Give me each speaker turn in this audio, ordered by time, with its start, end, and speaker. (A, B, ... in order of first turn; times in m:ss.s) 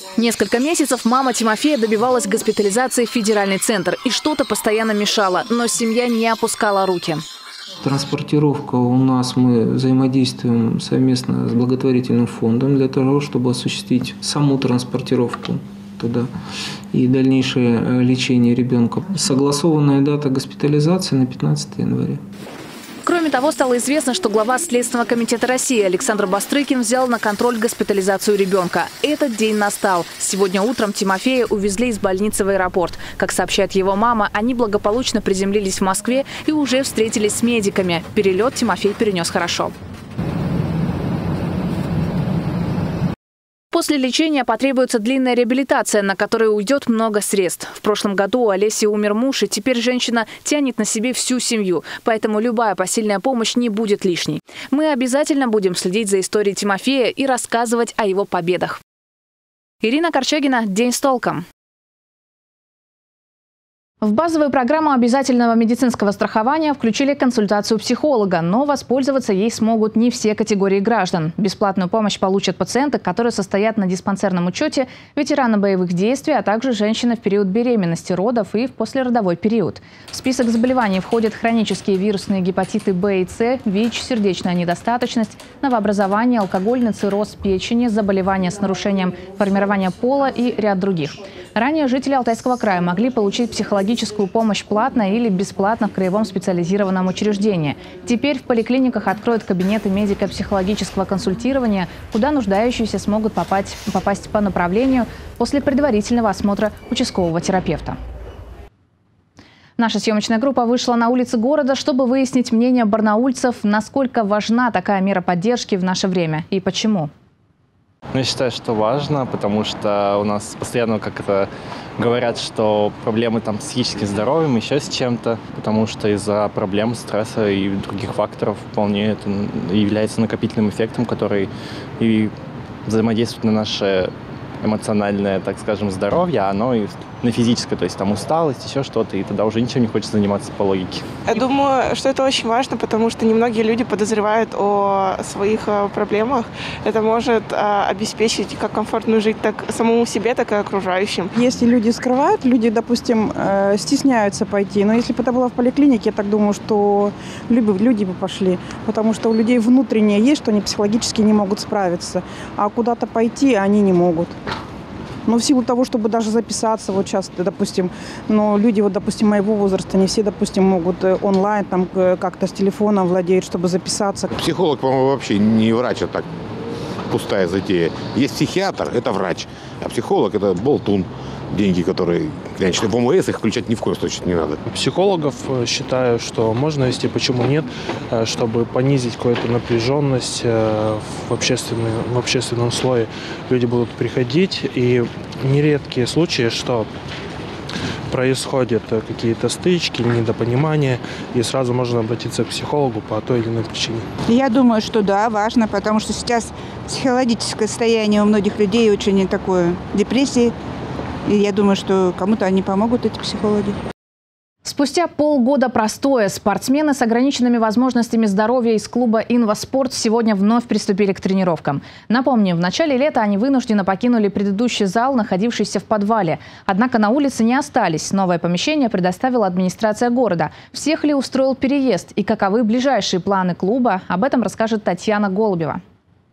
0:00.2-0:07.2 A
0:07.8-0:16.3 B
0:16.9-0:22.2 B
0:23.0-0:39.7 A
0:43.7-0:58.8 A
0:59.8-1:01.4 A
1:04.0-1:48.0 A
1:49.8-1:57.1 A
1:58.1-2:12.3 C
2:12.9-2:21.0 C
2:21.3-2:31.3 D
2:31.4-2:44.3 E
2:45.3-2:54.3 E
2:54.4-2:56.2 F
2:57.1-3:04.6 F
3:04.7-3:16.9 G
3:18.1-3:24.1 G
3:24.3-3:30.5 H
3:31.3-3:33.8 H
3:34.6-3:55.8 A